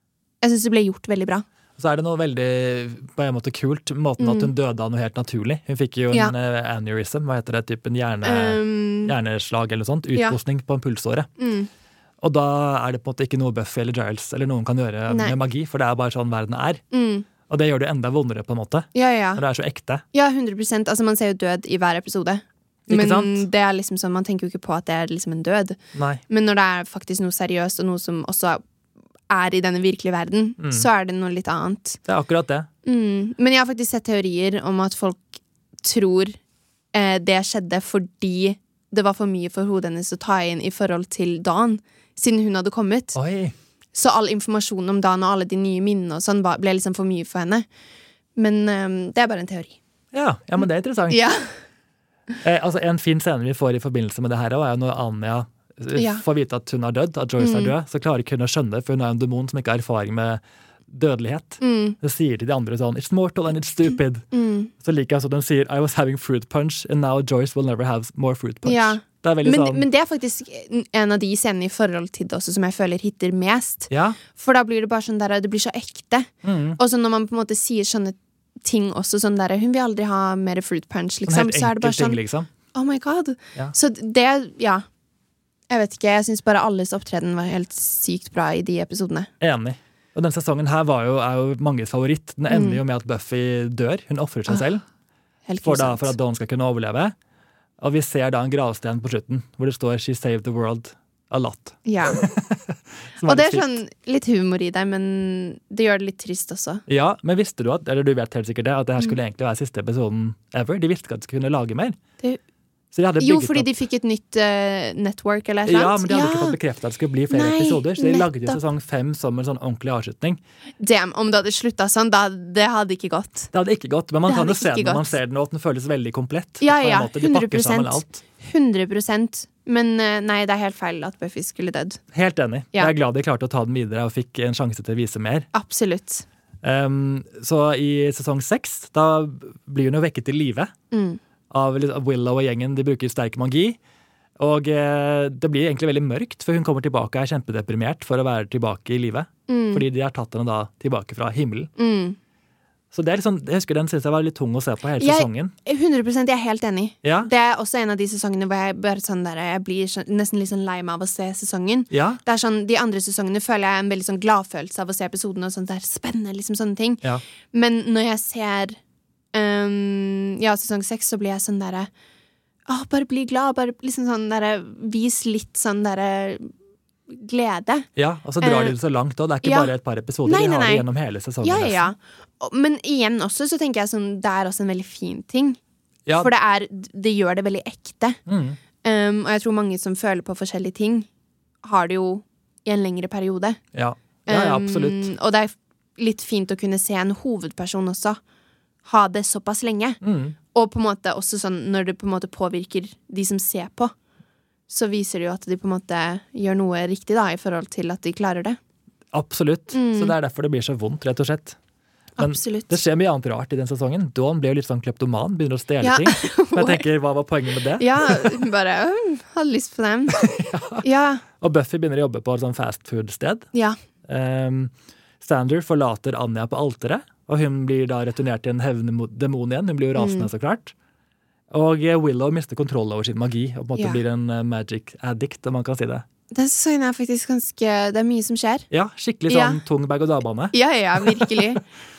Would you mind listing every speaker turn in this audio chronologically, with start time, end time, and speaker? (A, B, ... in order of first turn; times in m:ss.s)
0:00.4-0:01.4 A
0:01.8-0:11.3 B
0:04.2-0:04.5 A
0:08.2-0:09.1 A
0:11.4-0:11.7 A
0:12.2-0:16.8 B
0:15.1-0:15.3 A
0:16.9-0:17.3 A
0:17.5-0:20.0 B
0:18.9-0:19.4 A
0:20.1-0:28.6 A
0:22.9-0:23.4 B
0:25.9-0:26.2 B
0:29.3-0:32.0 A
0:30.6-0:30.9 B
0:32.0-0:32.7 B
0:32.8-0:36.4 A
0:36.9-0:43.2 A
0:43.1-0:43.5 B
0:43.9-0:47.6 A
0:48.4-0:49.8 A
0:50.1-0:51.2 B
0:51.1-0:51.5 A
0:52.4-1:04.2 B
0:55.9-0:56.2 A
0:57.4-0:57.7 A
1:01.6-1:02.0 A
1:04.3-1:04.7 A
1:04.8-1:09.8 B
1:08.6-1:22.2 A
1:13.9-1:14.2 B
1:16.4-1:16.8 B
1:21.3-1:22.5 B
1:22.7-1:24.8 A
1:25.7-1:29.3 A
1:29.4-1:34.8 B
1:32.5-1:32.8 A
1:35.5-1:36.1 A
1:35.6-1:37.1 B
1:37.8-1:43.8 B
1:41.8-1:42.2 A
1:43.2-1:46.8 A
1:46.9-1:52.0 B
1:52.9-1:53.7 B
1:53.2-1:56.6 A
1:55.6-2:00.4 B
1:57.3-1:58.6 A
2:00.8-2:03.5 A
2:03.5-2:08.2 B
2:04.3-2:05.1 A
2:06.6-2:12.0 A
2:12.1-2:15.5 B
2:15.5-2:16.2 A
2:16.6-2:20.7 B
2:20.9-2:21.2 A
2:21.5-2:23.8 B
2:24.4-2:31.7 B
2:29.5-2:29.8 A
2:31.8-2:32.2 A
2:32.9-2:35.5 B
2:35.0-2:48.8 A
2:37.0-2:37.3 B
2:41.9-2:42.2 B
2:49.3-2:51.9 A
2:52.7-2:56.5 A
2:57.1-2:57.9 A
2:58.0-3:01.9 B
2:58.4-2:58.7 A
2:59.4-2:59.7 A
3:00.2-3:00.8 A
3:01.4-3:05.6 A
3:06.0-3:06.3 B
3:06.2-3:08.2 A
3:08.3-3:08.6 B
3:08.8-3:11.1 A
3:11.6-3:13.6 A
3:13.7-3:15.1 B
3:14.3-3:18.2 A
3:18.8-3:23.9 A
3:20.0-3:20.4 B
3:24.7-3:28.6 A
3:29.1-3:31.6 B
3:29.7-3:30.1 A
3:32.2-3:32.7 A
3:32.2-3:38.4 B
3:35.8-3:36.9 A
3:37.8-3:40.2 A
3:40.1-3:40.8 B
3:40.8-3:41.2 A
3:41.4-3:43.4 B
3:44.1-3:50.7 B
3:49.9-3:50.3 A
3:51.5-3:56.0 B
3:53.8-3:54.0 A
3:56.3-3:58.7 A
3:58.7-4:01.5 B
3:59.3-3:59.6 A
4:00.5-4:01.6 A